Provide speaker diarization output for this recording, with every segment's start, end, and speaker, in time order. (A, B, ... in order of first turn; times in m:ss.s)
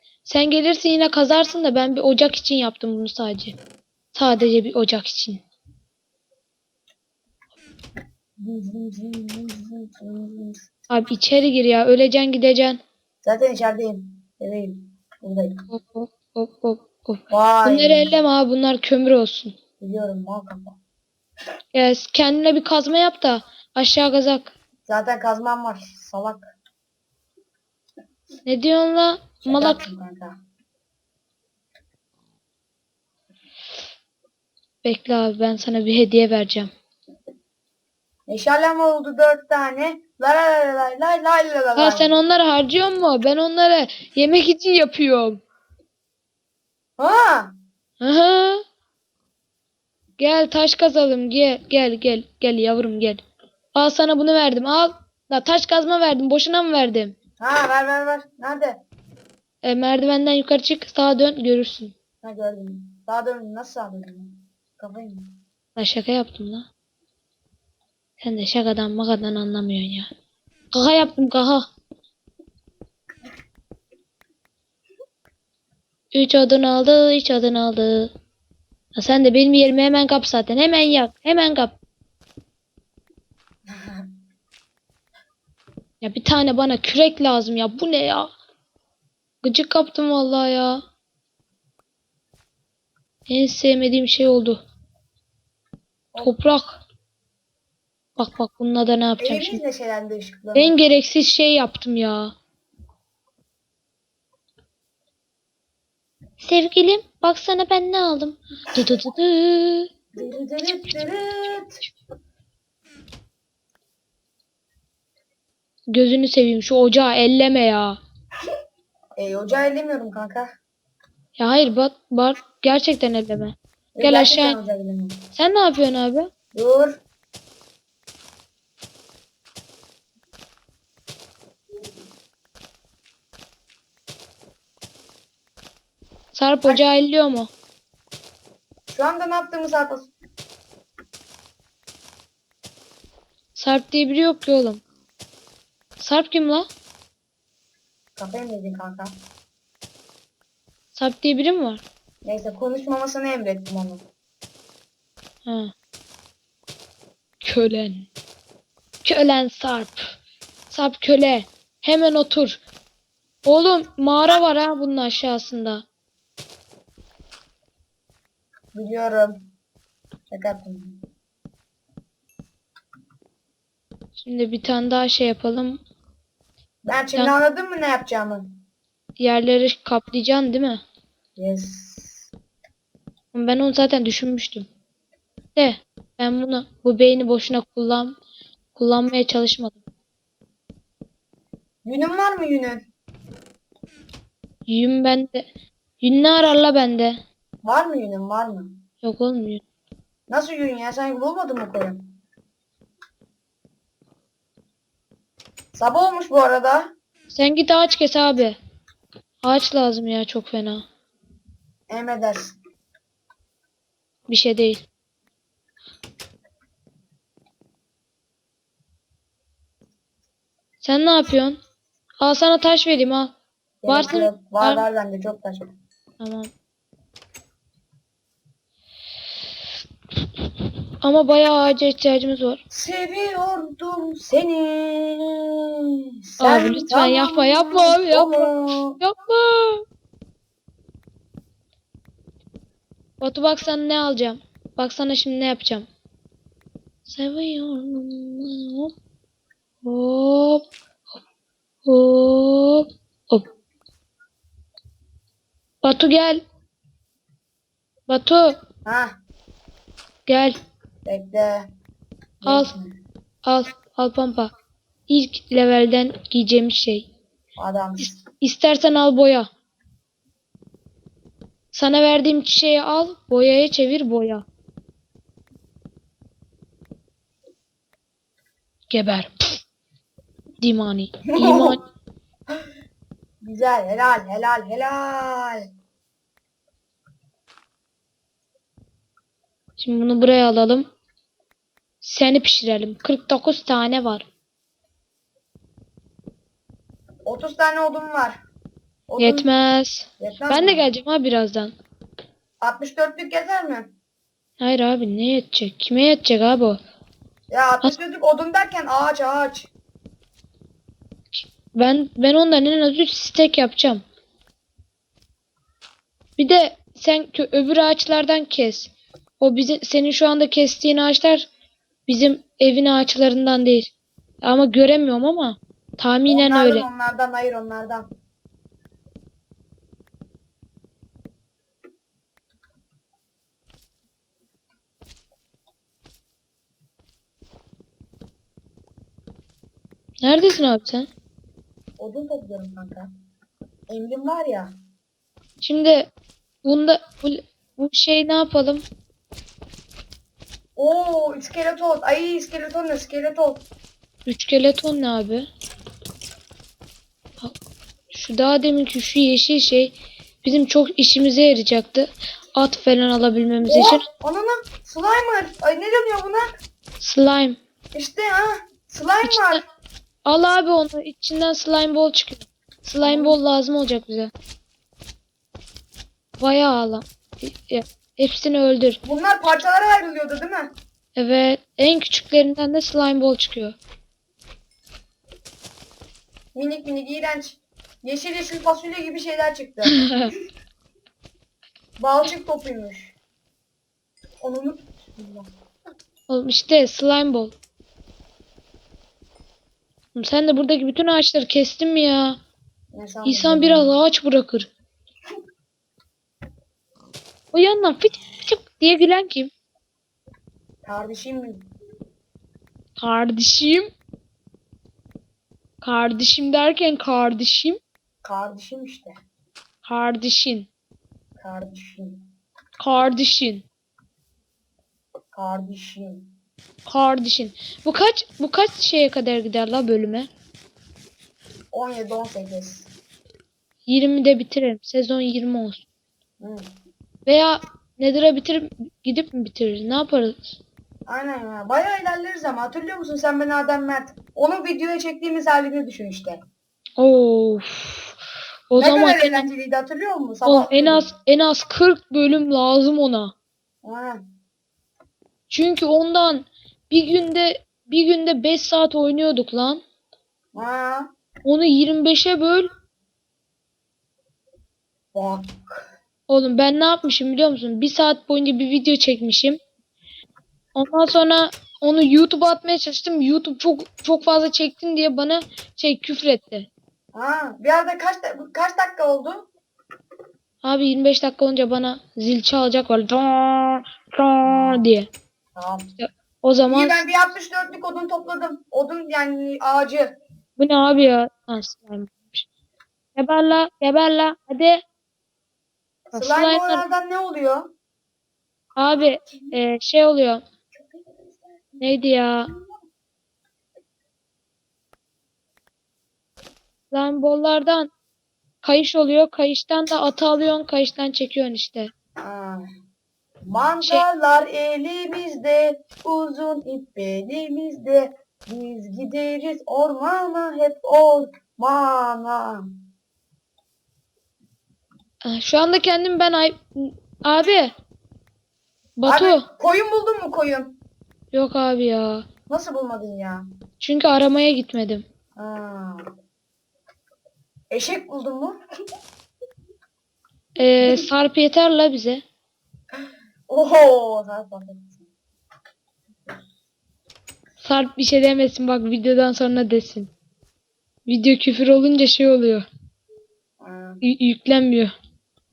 0:00.2-0:03.6 A
0:04.2-0:05.4 A
0:08.4-0:10.6 B
0:10.9-0:12.8 A
0:13.2-0:15.6 B
0:15.7-0:19.5 A
0:17.3-0:18.1 B
0:19.8-0:20.8 B
0:21.7-0:24.5 A
0:24.9-0:26.5 B
0:28.4-0:29.8 A
0:29.4-0:30.4 B
0:34.8-0:36.7 A
0:38.3-0:42.1 B
0:41.8-0:45.4 A
0:47.0-0:47.5 B
0:48.0-0:48.6 A
0:50.2-0:53.2 A
0:53.8-0:57.2 A
0:57.4-0:58.8 B
0:59.6-1:01.9 A
1:02.2-1:05.4 B
1:05.8-1:06.7 A
1:08.2-1:10.1 A
1:10.7-1:11.6 A
1:16.1-1:18.1 A
1:19.0-1:21.8 A
1:23.7-1:24.1 B
1:26.0-1:28.3 A
1:29.4-1:30.8 A
1:33.3-1:34.6 A
1:36.2-1:36.8 A
1:38.2-1:39.6 A
1:39.2-1:40.8 B
1:40.6-1:42.3 A
1:46.4-1:49.9 A
1:50.2-1:51.8 B
1:55.9-1:58.0 A
1:59.2-2:00.5 B
2:01.4-2:04.6 A
2:04.0-2:05.3 B
2:05.4-2:06.3 A
2:06.5-2:07.0 B
2:16.3-2:17.5 A
2:18.9-2:20.1 B
2:23.6-2:24.8 A
2:26.0-2:26.7 A
2:28.2-2:29.1 B
2:31.0-2:31.8 A
2:32.2-2:34.0 B
2:35.5-2:35.7 A
2:37.4-2:38.1 A
2:39.0-2:40.0 A
2:40.7-2:42.6 A
2:43.5-2:45.8 A
2:48.7-2:49.5 B
2:50.3-2:51.0 B
2:54.2-2:55.8 A
2:56.9-2:58.6 B
2:59.2-3:00.8 A
3:01.4-3:02.3 B
3:03.3-3:04.7 A
3:05.6-3:08.2 A
3:08.8-3:09.8 A
3:11.8-3:12.9 B
3:14.7-3:15.5 A
3:16.0-3:17.2 A
3:17.6-3:18.7 B
3:19.0-3:19.6 A
3:20.3-3:22.1 B
3:25.8-3:26.9 B
3:27.3-3:28.6 A
3:29.4-3:30.8 A
3:31.9-3:32.6 B
3:34.3-3:34.8 A
3:40.8-3:41.6 A
3:42.2-3:43.4 A
3:43.8-3:45.7 B
3:43.9-3:44.8 A
3:46.2-3:46.5 A
3:51.0-3:52.6 A
3:52.7-3:55.6 B
3:56.4-3:59.0 B
3:56.4-3:59.8 A
4:03.2-4:05.9 A
4:07.1-4:08.9 A
4:09.8-4:10.6 A
4:11.9-4:13.4 A
4:15.8-4:16.4 A
4:18.1-4:18.6 A
4:18.8-4:19.2 B
4:20.3-4:20.6 A
4:21.1-4:21.7 B
4:22.4-4:22.9 B
4:22.4-4:22.7 A
4:23.4-4:24.5 A
4:25.1-4:27.1 A
4:27.6-4:28.2 B
4:28.0-4:29.5 A
4:31.7-4:34.4 A
4:38.9-4:39.6 A
4:40.6-4:41.8 A
4:41.3-4:41.8 B
4:43.4-4:45.7 B
4:49.8-4:50.9 A
4:52.0-4:54.3 A
4:57.2-4:58.4 B
4:59.1-4:59.5 B
4:59.2-5:01.7 A
5:00.2-5:00.9 B
5:02.6-5:03.9 B
5:04.6-5:06.8 A
5:07.5-5:09.7 B
5:11.3-5:14.0 A
5:16.4-5:21.5 A
5:22.1-5:26.9 A
5:26.3-5:28.1 B
5:40.2-5:41.1 A
5:42.0-5:43.1 B
5:43.9-5:44.7 B
5:45.6-5:46.1 A
5:46.6-5:48.8 A
5:50.8-5:53.7 B
5:54.3-5:55.5 A
5:58.1-6:04.0 A
6:03.6-6:06.4 B
6:07.0-6:07.6 A
6:08.0-6:09.6 B
6:09.2-6:09.6 A
6:10.3-6:14.3 A
6:13.0-6:13.4 B
6:16.4-6:19.0 A
6:19.0-6:20.7 B
6:21.2-6:23.8 A
6:26.6-6:30.0 B
6:30.0-6:30.3 A
6:32.0-6:33.2 B
6:34.4-6:35.5 B
6:36.3-6:37.5 A
6:40.2-6:42.4 A
6:42.9-6:43.9 B
6:43.2-6:44.7 A
6:47.5-6:49.5 A
6:50.8-6:51.7 B
6:53.0-6:53.9 A
6:55.8-6:57.8 A
6:58.2-6:59.2 B
6:59.8-7:00.7 A
7:01.4-7:02.2 B
7:02.8-7:03.6 A
7:05.3-7:06.3 B
7:06.9-7:10.3 A
7:11.7-7:12.9 B
7:13.9-7:15.8 A
7:16.4-7:16.7 B
7:17.3-7:20.6 A
7:21.1-7:26.4 B
7:27.0-7:28.2 A
7:28.7-7:29.5 A
7:28.8-7:31.1 B
7:30.5-7:33.3 A
7:33.8-7:34.2 B
7:35.5-7:39.8 A
7:40.5-7:41.1 B
7:41.4-7:42.7 A
7:45.1-7:45.8 B
7:46.3-7:49.6 A
7:50.8-7:56.7 A
7:57.1-7:59.5 B
8:00.6-8:05.1 A
8:04.4-8:04.9 B
8:05.6-8:05.9 B
8:06.0-8:07.0 A
8:06.7-8:10.2 B
8:10.6-8:12.5 A
8:13.2-8:14.8 A
8:16.1-8:17.7 B
8:16.1-8:16.8 A
8:18.8-8:20.4 A
8:19.2-8:19.6 B
8:20.7-8:21.8 B
8:21.8-8:22.5 A
8:22.5-8:22.8 B
8:26.9-8:27.9 A
8:28.6-8:31.9 A
8:32.2-8:32.6 B
8:33.4-8:42.6 B
8:45.2-8:47.7 A
8:49.0-8:49.4 A
8:49.1-8:50.8 B
8:51.3-8:52.2 A
8:52.5-8:53.4 B
8:53.8-8:55.0 A
8:55.4-8:56.1 B
8:57.7-8:58.6 B
9:00.6-9:02.2 A
9:00.8-9:01.1 B
9:03.5-9:05.1 B
9:07.6-9:10.1 A
9:11.1-9:12.7 A
9:13.6-9:14.0 B
9:14.0-9:14.9 A